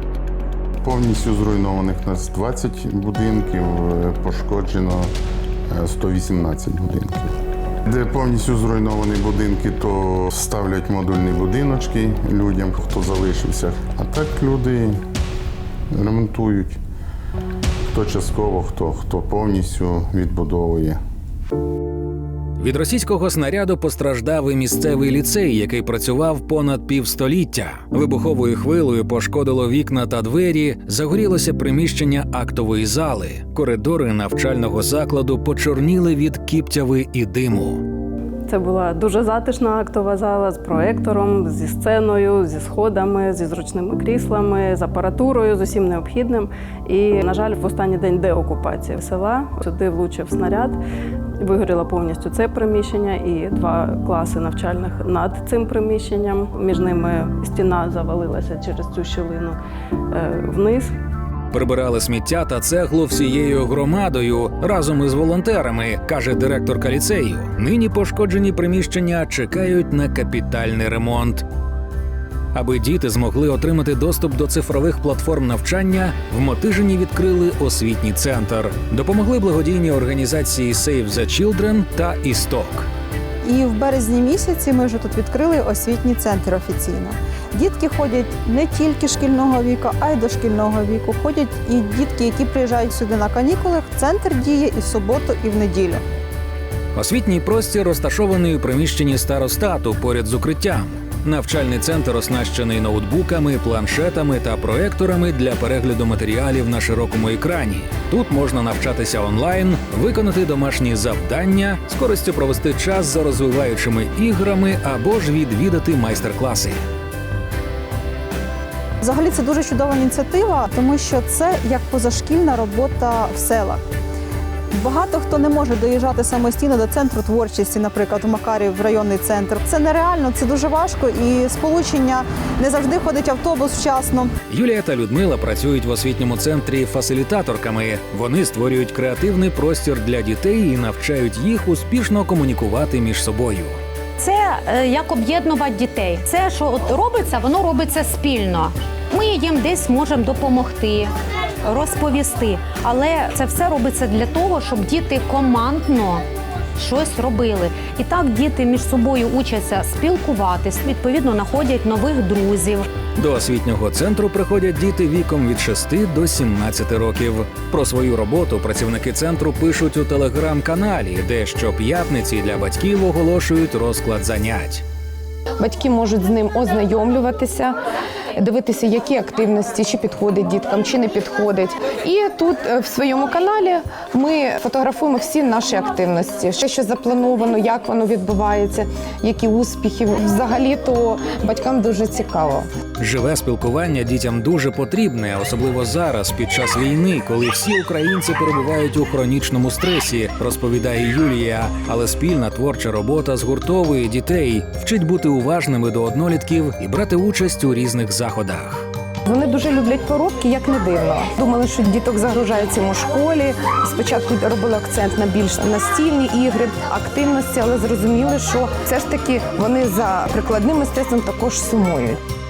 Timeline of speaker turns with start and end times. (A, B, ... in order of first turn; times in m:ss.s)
0:00.8-0:05.1 A
0:05.7-0:07.3 A
0:07.9-0:15.0 A
0:15.9-0:16.8 A
0:17.9-0:21.0 A
0:22.6-0:37.8 B
0:38.5-0:50.8 C
0:51.4-0:59.6 C
1:00.1-1:00.9 C
1:01.5-1:11.4 B
1:12.5-1:22.9 B
1:23.4-1:36.0 D
1:36.9-1:56.8 B
1:59.0-2:03.8 D
2:04.8-2:14.3 D
2:14.5-2:23.8 B
2:24.2-2:31.1 E
2:31.6-2:36.2 E
2:36.8-2:42.9 E
2:43.2-2:54.8 B
2:55.6-2:57.8 F
2:58.4-3:12.7 F
3:13.0-3:28.9 B
3:29.2-3:42.2 F